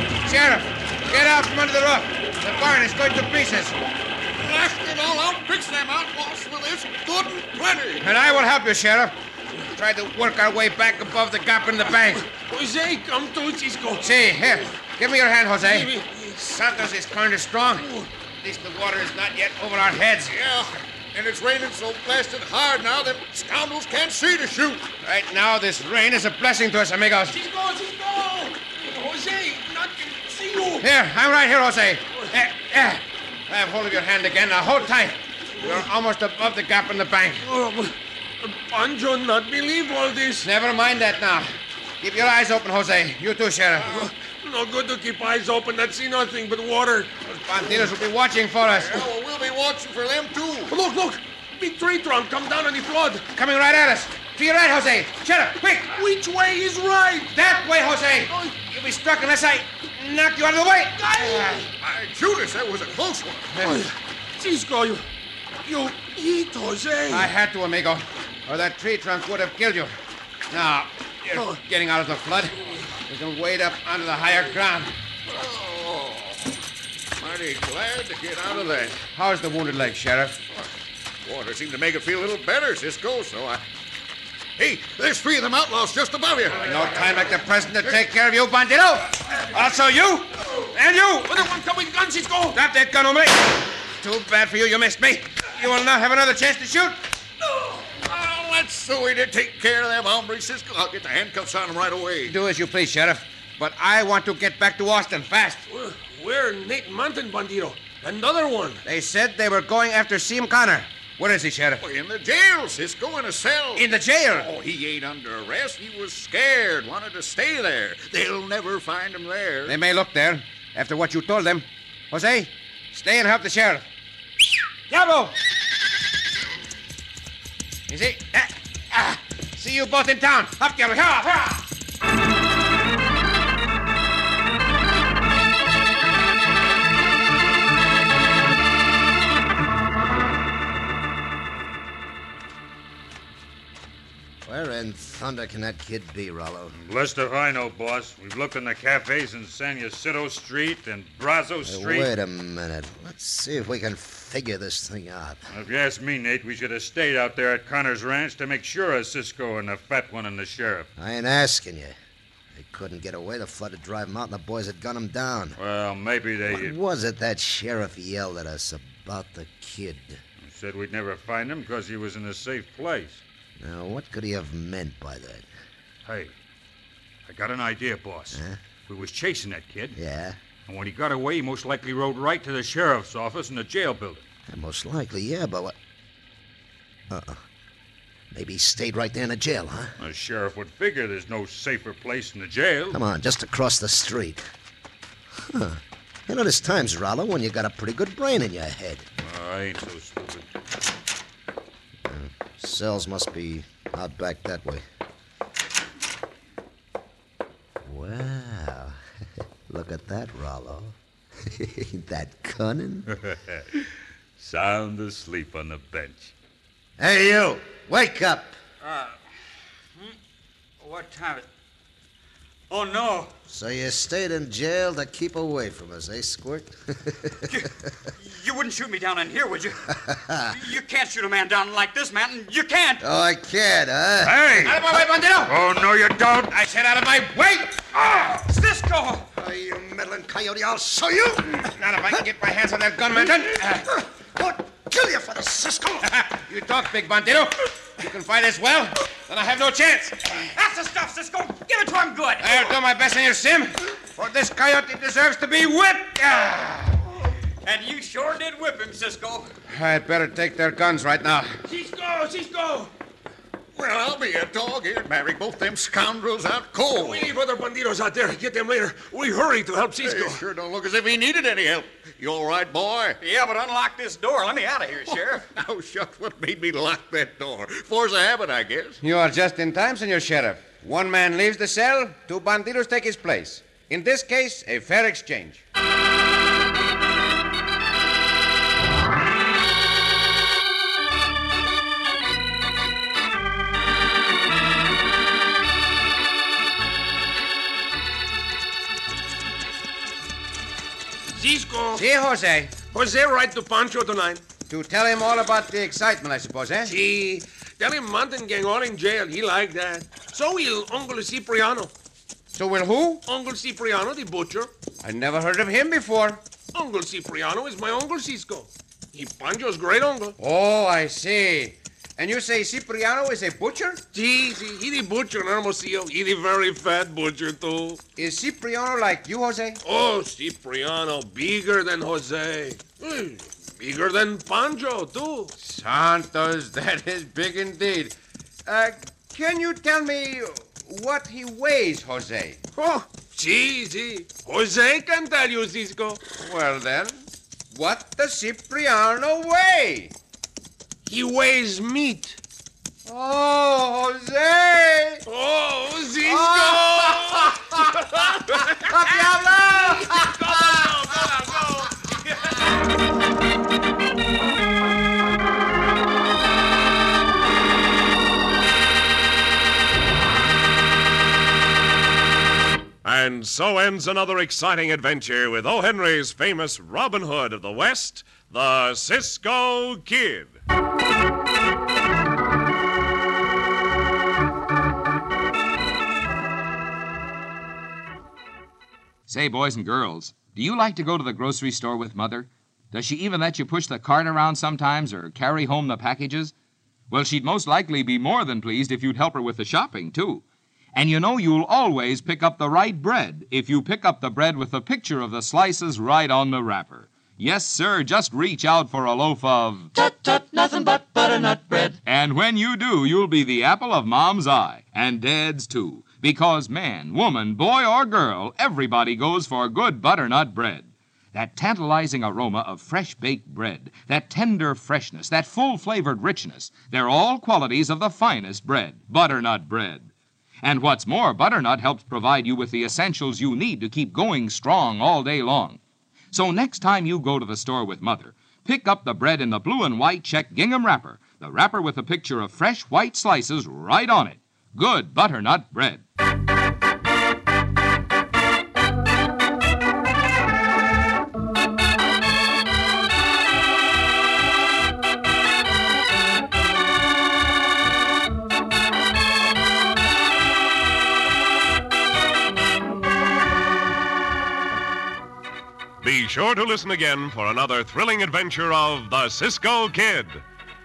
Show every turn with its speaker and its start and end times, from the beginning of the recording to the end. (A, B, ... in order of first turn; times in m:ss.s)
0:00.2-0:03.8 A
0:04.4-0:08.1 B
0:08.0-0:09.2 A
0:09.7-0:12.2 A
0:12.1-0:14.7 C
0:14.0-0:17.9 A
0:15.6-0:16.4 C
0:17.8-0:18.1 C
0:18.4-0:20.4 A
0:20.2-0:24.9 B
0:25.0-0:27.4 A
0:27.3-0:30.9 C
0:30.8-0:37.4 A
0:35.6-0:35.9 C
0:37.4-0:40.5 C
0:40.4-0:41.5 A
0:42.0-0:44.1 A
0:43.8-0:47.8 C
0:47.2-0:49.1 A
0:48.7-0:50.7 B
0:50.7-0:53.3 C
0:53.3-0:56.0 A
0:55.9-0:57.4 C
0:57.3-1:01.7 A
0:58.3-0:58.6 C
1:01.0-1:01.7 C
1:01.8-1:03.6 B
1:03.6-1:03.8 A
1:03.6-1:05.1 C
1:05.6-1:07.3 C
1:07.1-1:09.9 A
1:10.5-1:14.9 A
1:11.4-1:11.6 C
1:15.3-1:16.6 B
1:17.2-1:19.0 B
1:19.1-1:20.4 A
1:21.2-1:23.6 B
1:24.6-1:26.8 B
1:26.6-1:31.5 A
1:31.2-1:32.6 C
1:32.5-1:37.0 A
1:37.9-1:42.4 B
1:42.3-1:45.6 A
1:45.7-1:48.8 C
1:48.8-1:51.8 A
1:51.8-1:59.8 B
1:53.8-1:54.5 A
1:59.7-2:03.8 A
2:04.9-2:05.4 A
2:07.9-2:11.7 A
2:24.4-2:26.8 D
2:26.7-2:32.1 E
2:31.6-2:35.4 D
2:35.5-2:40.9 E
2:41.0-2:42.0 D
2:42.5-2:45.6 D
2:45.6-2:46.8 E
2:46.5-2:50.2 D
2:50.4-2:53.2 E
2:53.6-2:55.5 D
2:56.0-2:56.3 E
2:57.3-3:00.0 E
2:58.3-2:58.6 D
3:00.0-3:00.4 D
3:00.7-3:04.2 E
3:04.5-3:05.8 D
3:07.1-3:07.4 D
3:08.3-3:10.0 D
3:10.0-3:13.0 E
3:12.9-3:14.4 D
3:15.4-3:19.1 D
3:19.2-3:20.5 E
3:22.0-3:24.8 D
3:27.8-3:29.0 D
3:29.7-3:33.1 D
3:33.1-3:33.9 E
3:34.4-3:36.3 E
3:37.0-3:38.6 D
3:38.8-3:39.2 E
3:40.8-3:41.4 E
3:42.7-3:43.3 E
3:43.5-3:47.7 D
3:47.5-3:53.0 F
3:50.0-3:50.6 D
3:53.0-3:54.4 D
3:54.2-3:54.8 E
3:54.5-3:55.6 A
3:55.5-3:56.6 E
3:56.5-3:57.9 A
3:58.5-3:59.2 F
3:59.3-4:01.7 D
4:01.7-4:03.9 A
4:04.4-4:06.1 D
4:06.0-4:10.4 A
4:10.4-4:12.7 F
4:12.4-4:17.0 A
4:17.6-4:19.5 F
4:19.7-4:21.5 A
4:21.7-4:22.9 C
4:23.8-4:27.3 B
4:26.9-4:30.4 C
4:30.0-4:33.2 B
4:33.2-4:35.4 F
4:35.1-4:39.0 B
4:39.0-4:45.6 A
5:01.3-5:02.1 C
5:02.0-5:02.8 A
5:02.8-5:04.4 C
5:04.7-5:06.9 A
5:06.8-5:11.9 C
5:12.5-5:13.2 A
5:13.3-5:14.7 C
5:15.0-5:16.4 A
5:16.7-5:20.4 C
5:20.4-5:24.0 A
5:24.1-5:28.0 C
5:28.2-5:29.8 A
5:29.8-5:35.5 C
5:35.6-5:38.2 A
5:38.7-5:42.6 A
5:42.8-5:46.3 C
5:46.3-5:47.2 A
5:47.7-5:50.1 A
5:51.0-5:52.4 C
5:53.1-5:55.2 A
5:55.3-5:59.1 C
5:56.2-6:00.8 A
5:59.7-6:02.5 C
6:13.0-6:20.6 G
6:29.3-6:36.5 H
6:37.1-6:40.4 H
6:41.0-6:49.9 H
6:50.0-6:52.0 I
6:52.0-7:10.1 H
7:10.6-7:15.8 H
7:16.3-7:26.0 H
7:46.0-7:50.4 G